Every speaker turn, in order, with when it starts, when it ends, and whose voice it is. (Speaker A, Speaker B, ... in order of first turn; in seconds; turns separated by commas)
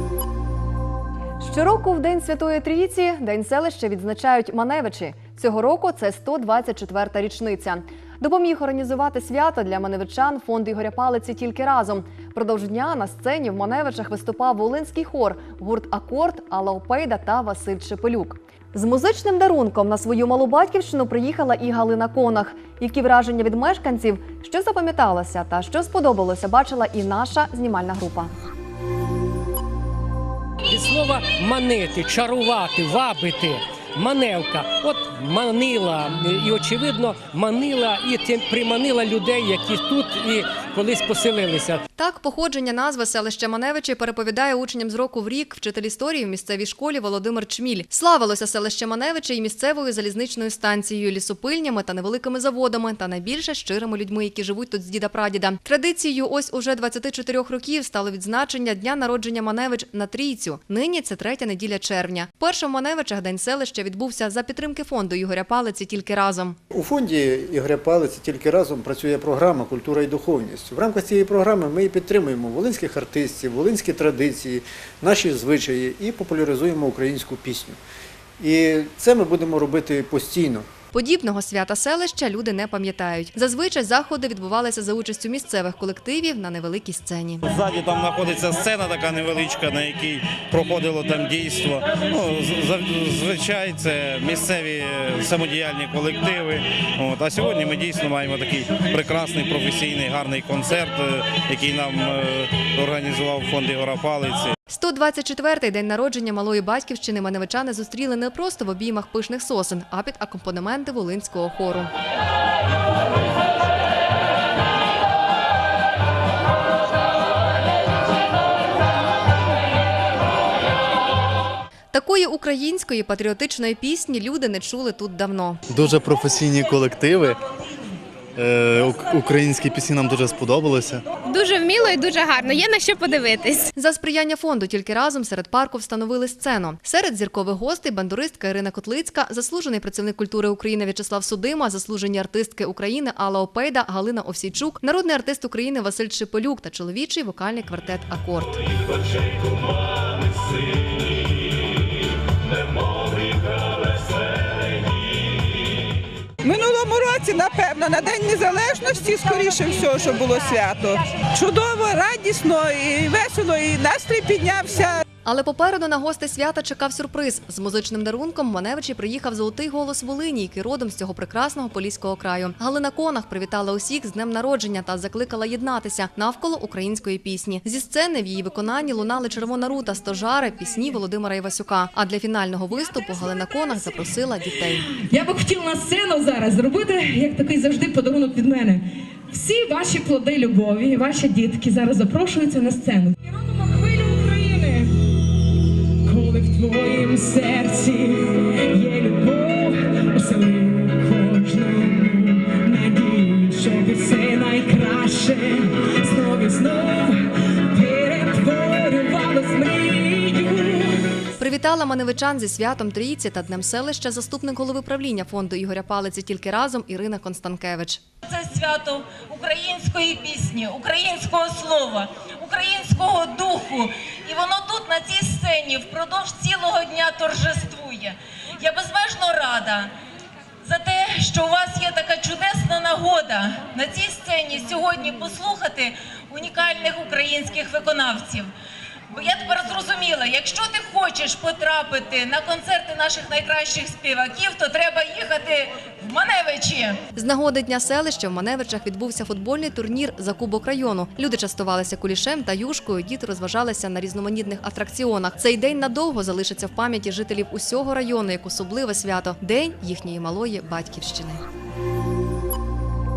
Speaker A: 1.4-28.3, Speaker B: 30.7-41.8, Speaker A: 42.0-66.6, Speaker C: 66.7-77.8, Speaker C: 78.4-80.7, Speaker A: 80.9-87.4, Speaker D: 87.4-104.5, Speaker A: 104.7-111.9, Speaker A: 121.9-125.6, Speaker E: 125.7-127.4, Speaker E: 128.4-131.0, Speaker F: 131.3-133.7, Speaker A: 133.8-148.6, Speaker G: 156.4-165.0, Speaker A: 165.3-184.9, Speaker H: 185.0-194.9, Speaker H: 196.1-207.2, Speaker H: 207.7-210.9, Speaker A: 211.4-218.0, Speaker I: 218.2-229.9, Speaker I: 230.6-238.5, Speaker I: 239.1-247.0, Speaker A: 247.2-261.4